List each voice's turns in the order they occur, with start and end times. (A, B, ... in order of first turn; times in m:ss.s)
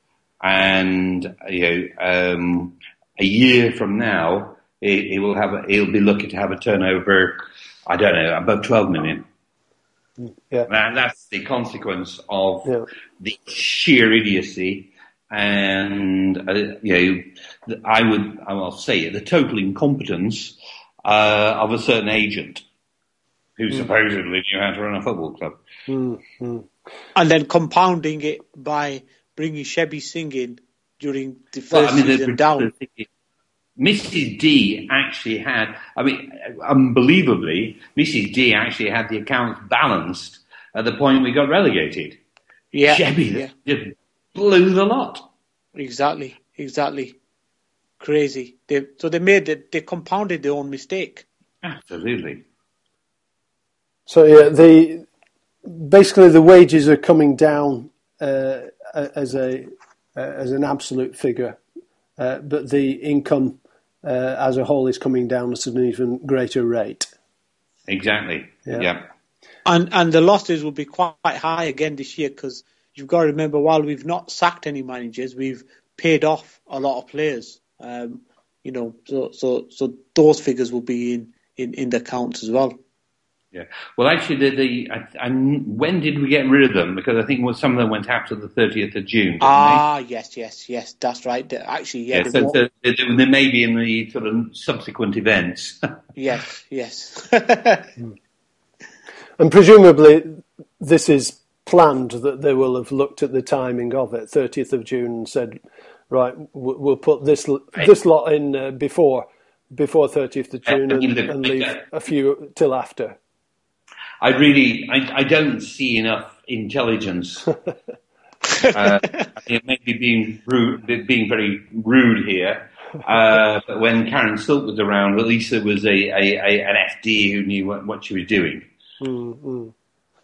0:00.4-0:09.2 A
0:10.2-0:10.7 B
0:10.6-0:22.6 A
0:23.6-0:25.6 A
0:25.9-0:26.7 B
0:27.1-0:32.7 C
0:31.7-0:33.1 A
0:33.8-0:42.2 A
0:42.7-0:43.5 C
0:42.9-0:45.2 A
0:45.7-0:47.2 C
0:48.0-0:51.2 C
0:51.6-0:52.4 A
0:54.1-0:55.0 B
0:55.6-1:01.6 B
1:02.2-1:07.1 B
1:07.9-1:09.0 A
1:09.6-1:22.8 C
1:23.5-1:29.8 A
1:29.4-1:32.6 C
1:32.1-1:35.8 A
1:36.2-1:37.9 C
1:39.4-1:53.2 B
1:50.7-1:51.8 A
1:54.2-1:57.5 A
1:58.7-2:08.7 A
2:09.0-2:09.7 B